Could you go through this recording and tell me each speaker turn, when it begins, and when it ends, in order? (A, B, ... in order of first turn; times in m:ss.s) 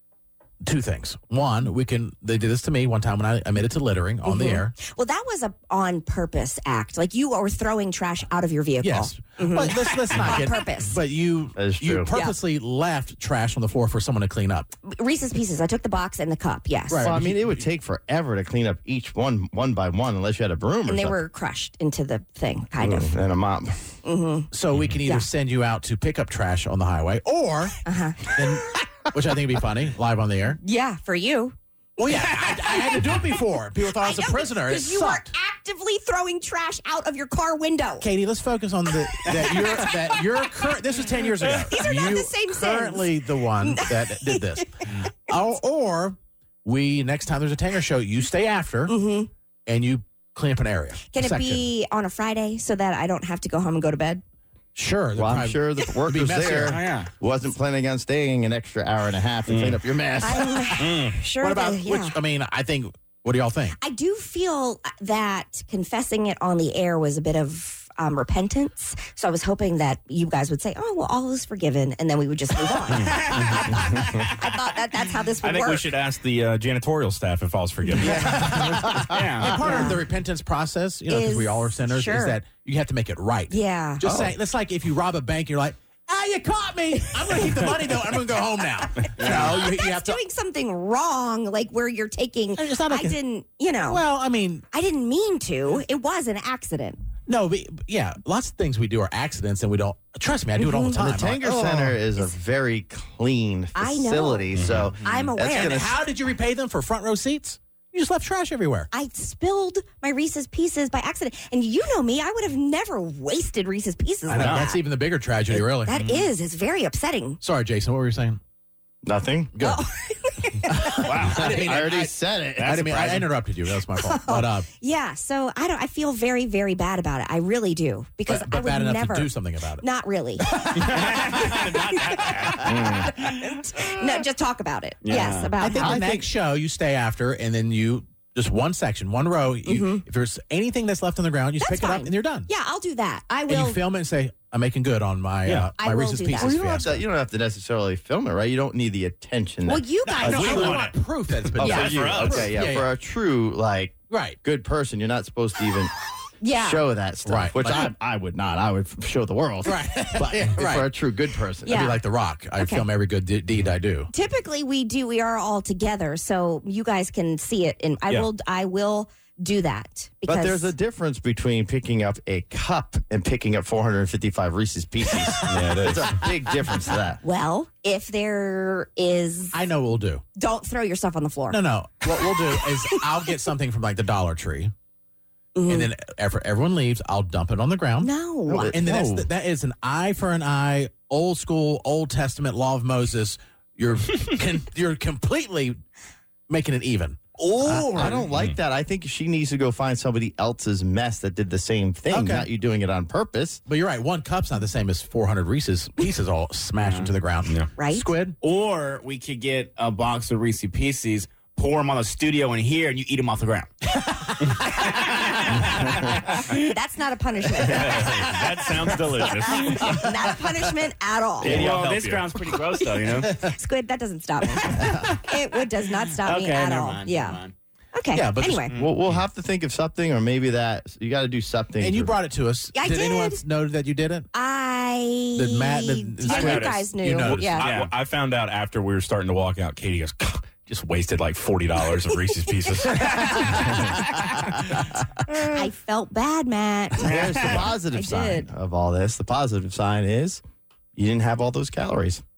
0:00.6-0:04.7 A
0:04.2-0:11.0 B
0:08.8-0:14.7 A
0:11.6-0:12.1 C
0:14.9-0:17.1 B
0:16.9-0:17.6 A
0:17.0-0:21.2 C
0:20.8-0:23.1 B
0:22.8-0:23.8 C
0:24.0-0:24.5 B
0:24.5-0:30.6 A
0:27.8-0:28.3 B
0:30.6-0:31.5 B
0:32.0-0:35.3 A
0:34.0-0:38.0 B
0:38.0-0:49.0 A
0:39.3-0:39.8 B
0:41.4-0:44.6 B
0:48.9-0:49.3 B
0:49.6-0:51.7 A
0:51.1-0:54.2 B
0:54.7-0:56.8 A
0:55.2-1:00.6 C
0:56.7-0:57.1 D
0:59.5-0:59.8 E
1:00.2-1:02.2 B
1:00.8-1:01.1 E
1:01.4-1:03.8 A
1:03.8-1:15.9 B
1:12.9-1:14.3 D
1:13.0-1:13.6 E
1:15.4-1:18.4 E
1:18.0-1:30.2 A
1:18.5-1:19.1 C
1:19.0-1:19.8 D
1:19.6-1:20.0 B
1:21.1-1:22.4 B
1:23.5-1:24.0 B
1:24.0-1:24.3 C
1:29.2-1:29.5 D
1:29.3-1:34.0 B
1:32.6-1:33.2 A
1:33.8-1:34.6 A
1:34.7-1:37.0 B
1:37.3-1:42.0 A
1:40.6-1:41.0 B
1:40.9-1:45.9 C
1:43.7-1:46.0 B
1:44.5-1:44.9 E
1:45.5-1:48.9 A
1:48.9-1:54.8 B
1:54.3-1:55.9 A
1:54.3-1:54.7 E
1:55.5-1:57.4 B
1:57.4-1:58.4 A
1:59.0-1:59.5 C
1:59.5-1:59.8 A
1:59.6-2:00.9 B
2:00.6-2:04.7 A
2:00.9-2:01.5 D
2:01.0-2:01.9 E
2:01.2-2:03.3 C
2:03.9-2:10.9 B
2:08.2-2:09.8 A
2:10.7-2:11.6 D
2:10.8-2:12.6 E
2:12.3-2:16.0 B
2:12.6-2:13.1 C
2:15.0-2:15.5 D
2:15.6-2:22.5 A
2:15.8-2:16.2 C
2:19.6-2:20.0 B
2:21.6-2:23.8 B
2:23.5-2:27.0 A
2:25.4-2:25.7 E
2:25.8-2:26.6 B
2:26.4-2:30.8 C
2:29.6-2:30.8 B
2:30.0-2:32.8 A
2:30.2-2:31.0 E
2:31.6-2:32.5 E
2:31.6-2:35.9 C
2:31.6-2:31.9 B
2:34.1-2:34.4 A
2:36.4-2:36.8 B
2:36.5-2:41.8 C
2:37.2-2:37.9 A
2:39.6-2:40.9 A
2:41.6-2:42.0 B
2:41.6-2:44.1 A
2:42.6-2:42.8 B
2:44.1-2:50.7 B
2:50.2-2:57.2 C
2:55.4-2:56.0 E
2:57.2-2:59.5 B
2:59.5-3:00.2 A
3:00.4-3:01.6 B
3:01.5-3:04.7 A
3:02.4-3:03.0 B
3:05.5-3:05.9 B
3:05.7-3:08.1 A
3:08.0-3:08.8 B
3:08.5-3:09.3 C
3:08.7-3:15.8 A
3:16.5-3:17.2 A
3:17.4-3:18.2 D
3:17.6-3:23.6 C
3:22.1-3:22.5 A
3:23.6-3:28.4 A
3:26.8-3:27.1 D
3:27.8-3:28.1 B
3:28.4-3:33.7 D
3:34.7-3:36.6 D
3:36.5-3:38.3 B
3:37.6-3:38.3 D
3:37.8-3:40.1 E
3:38.8-3:40.0 D
3:39.4-3:41.6 B
3:41.4-3:42.5 E
3:41.4-3:43.4 D
3:42.7-3:47.4 B
3:44.6-3:45.2 D
3:46.2-3:47.5 D
3:47.9-3:48.8 B
3:48.1-3:48.7 A
3:48.7-3:52.2 C
3:51.8-3:54.3 A
3:52.7-3:53.4 B
3:54.3-3:57.7 B
3:55.3-3:57.6 A
3:56.2-4:03.8 E
3:57.6-3:57.9 D
4:03.0-4:04.4 D
4:03.0-4:03.3 B
4:05.3-4:08.5 B
4:07.0-4:10.4 C
4:07.1-4:07.4 D
4:11.0-4:12.2 C